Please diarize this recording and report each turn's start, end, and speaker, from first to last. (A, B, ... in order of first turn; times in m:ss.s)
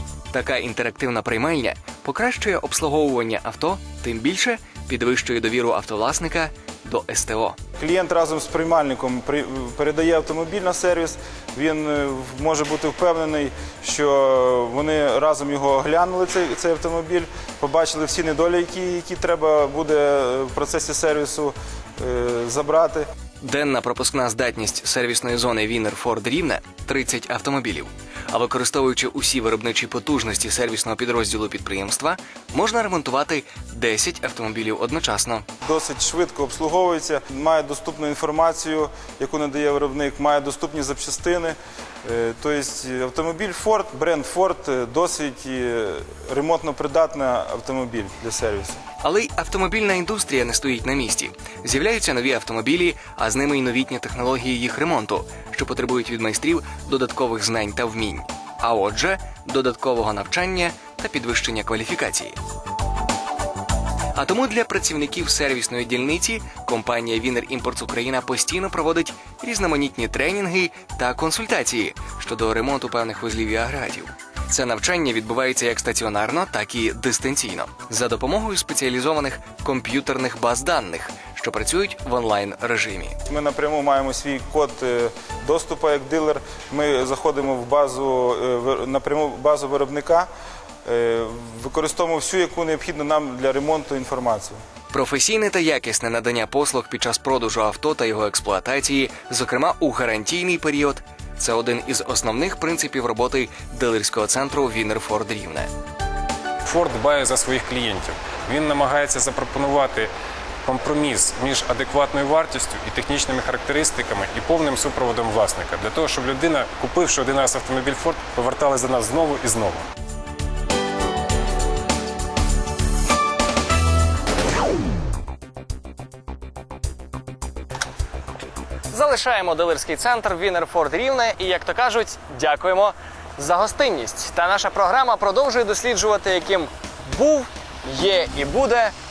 0:00.3-0:07.6 A
0:07.8-0:23.0 B
0:23.4-0:35.5 A
0:35.6-0:48.8 B
0:49.0-1:02.4 A
1:04.2-1:23.2 A
1:23.3-1:30.3 B
1:30.8-1:34.6 B
1:34.9-1:45.7 A
1:46.6-1:50.1 C
1:50.6-1:59.9 C
2:08.9-2:18.9 D